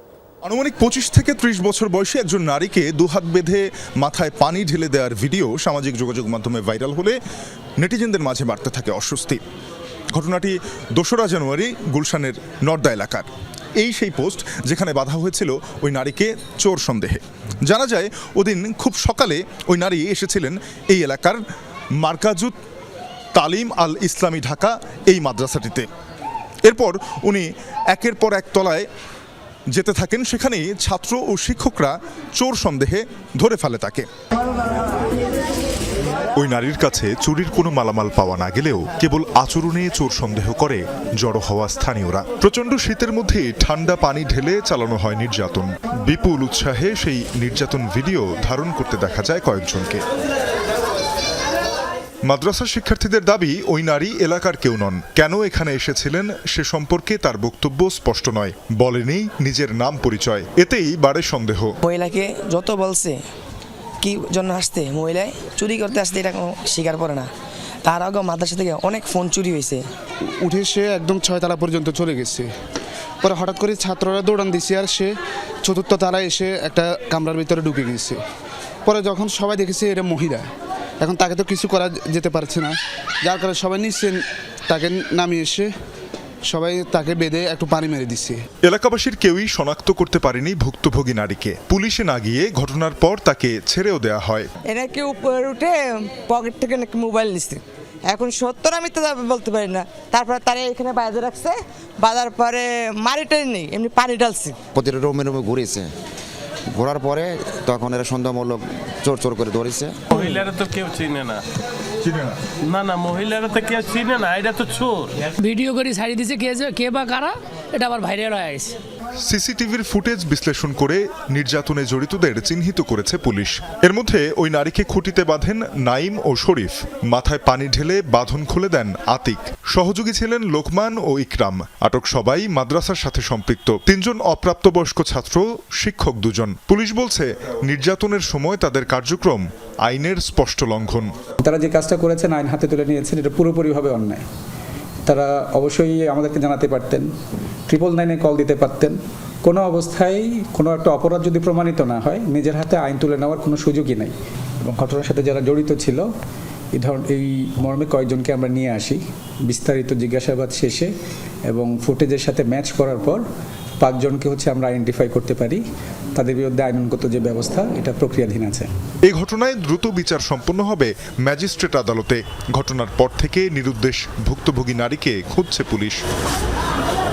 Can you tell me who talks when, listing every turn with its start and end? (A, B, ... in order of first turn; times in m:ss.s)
0:00.4-0:07.2 A
0:07.8-0:09.4 A
0:10.1-0:21.4 A
0:22.0-0:22.6 A
0:23.4-0:25.9 A
0:26.6-0:28.9 A
0:29.7-0:34.1 A
0:36.3-0:50.0 A
0:52.3-1:01.7 A
1:01.8-1:03.2 B
1:04.0-1:07.3 B
1:07.8-1:09.8 B
1:10.4-1:12.5 C
1:13.2-1:15.1 C
1:15.6-1:18.2 C
1:18.9-1:20.4 C
1:21.0-1:24.2 C
1:24.7-1:25.7 C
1:26.5-1:28.4 C
1:28.6-1:34.5 A
1:34.7-1:44.6 D
1:44.7-1:45.9 E
1:46.7-1:50.3 E
1:50.1-1:51.4 F
1:52.0-1:52.4 A
1:52.7-1:55.2 F
1:55.4-1:58.7 G
1:59.2-2:21.1 A
2:21.4-2:24.2 H
2:25.1-2:27.1 H
2:27.7-2:36.1 H
2:36.7-2:40.9 H
2:41.5-2:43.2 H
2:43.8-2:45.6 H
2:46.2-2:48.7 H
2:49.1-2:56.0 A